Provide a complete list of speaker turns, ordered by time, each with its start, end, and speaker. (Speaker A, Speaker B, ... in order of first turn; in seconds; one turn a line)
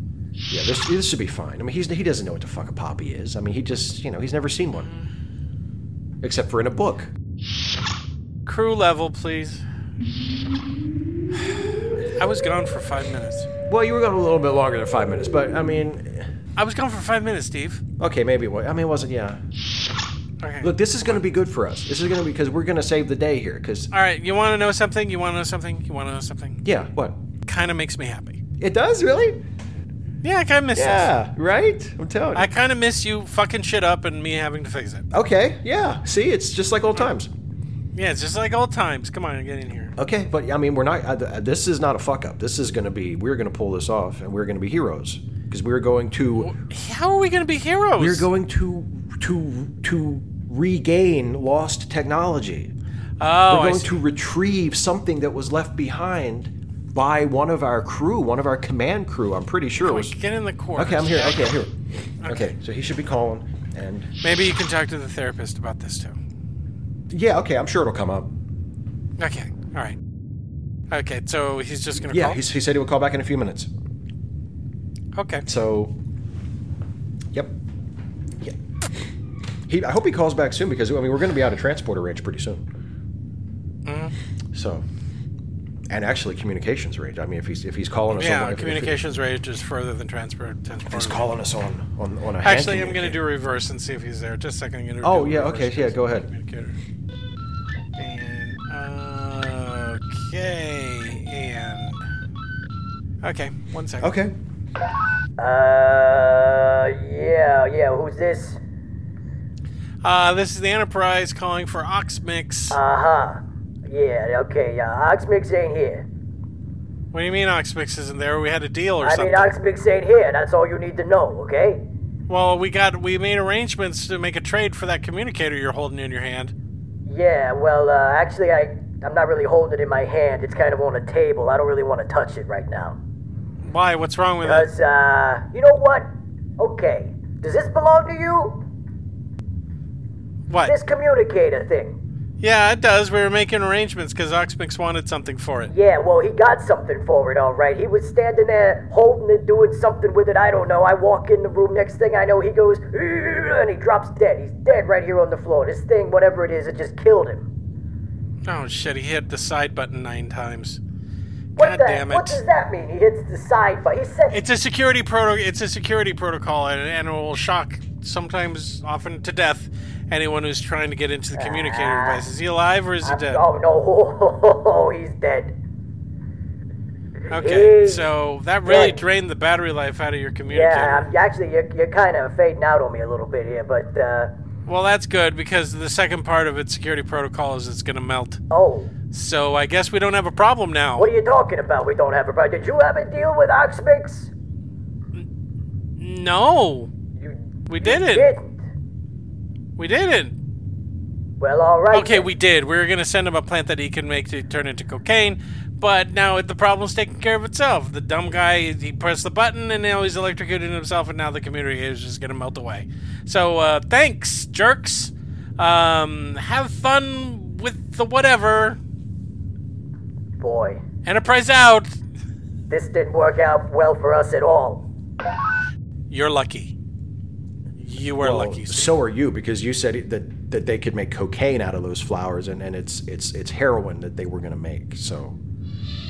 Speaker A: 0.5-4.9
Speaker B: 4.7-5.1
Speaker A: 6.2-7.1
Speaker B: 8.4-9.6
Speaker B: 12.1-13.5
Speaker A: 13.7-16.3
Speaker B: 16.6-17.8
Speaker A: 18.0-19.4
Speaker B: 20.4-21.2
Speaker A: 20.6-23.9
Speaker B: 23.9-26.6
Speaker A: 26.6-27.2
Speaker B: 27.4-28.4
Speaker A: 28.6-29.4
Speaker B: 30.2-31.1
Speaker A: 30.7-32.5
Speaker B: 32.3-35.0
Speaker A: 35.1-37.3
Speaker B: 37.9-39.9
Speaker A: 40.0-46.5
Speaker B: 46.4-48.3
Speaker A: 48.0-52.7
Speaker B: 53.2-54.0
Speaker A: 53.5-60.2
Speaker B: 59.8-61.5
Speaker A: 60.8-64.1
Speaker B: 62.2-62.5
Speaker B: 64.2-66.2
Speaker A: 67.1-68.3
Speaker B: 69.2-70.0
Speaker B: 70.9-72.4
Speaker A: 72.1-73.7
Speaker B: 75.2-75.4
Speaker A: 75.4-76.0
Speaker A: 77.3-77.6
Speaker A: 79.7-82.6
Speaker B: 83.8-84.1
Speaker A: 84.5-84.8
Speaker A: 85.9-89.0
Speaker B: 88.1-91.3
Speaker A: 90.9-93.2
Speaker B: 92.4-96.8
Speaker A: 95.0-96.3
Speaker B: 98.0-102.1
Speaker B: 103.2-104.1
Speaker A: 104.0-104.3
Speaker C: 105.4-108.6
Speaker B: 110.0-112.8
Speaker C: 112.7-116.0
Speaker B: 117.1-119.5
Speaker C: 119.0-121.8
Speaker B: 122.3-126.5
Speaker C: 127.1-133.0
Speaker B: 133.6-134.7
Speaker C: 134.4-138.6
Speaker B: 140.5-140.8
Speaker C: 140.6-141.9
Speaker B: 142.4-145.7
Speaker C: 145.7-157.5
Speaker B: 158.4-160.8
Speaker B: 161.6-162.4
Speaker C: 161.6-164.4
Speaker B: 164.3-173.4
Speaker C: 171.3-172.2
Speaker C: 173.0-175.5
Speaker C: 177.3-178.1
Speaker B: 177.3-181.1
Speaker C: 178.7-179.0
Speaker C: 180.5-184.3
Speaker B: 184.7-188.4
Speaker C: 188.5-188.9
Speaker B: 189.1-191.1
Speaker C: 191.0-194.3
Speaker B: 196.0-196.9
Speaker C: 197.2-198.6
Speaker B: 197.7-198.3
Speaker B: 199.8-200.3
Speaker C: 201.4-202.3
Speaker B: 201.9-218.8
Speaker C: 220.4-220.8
Speaker B: 221.0-222.0
Speaker C: 222.7-224.8
Speaker B: 226.1-226.7
Speaker B: 227.8-228.9
Speaker A: 228.2-235.4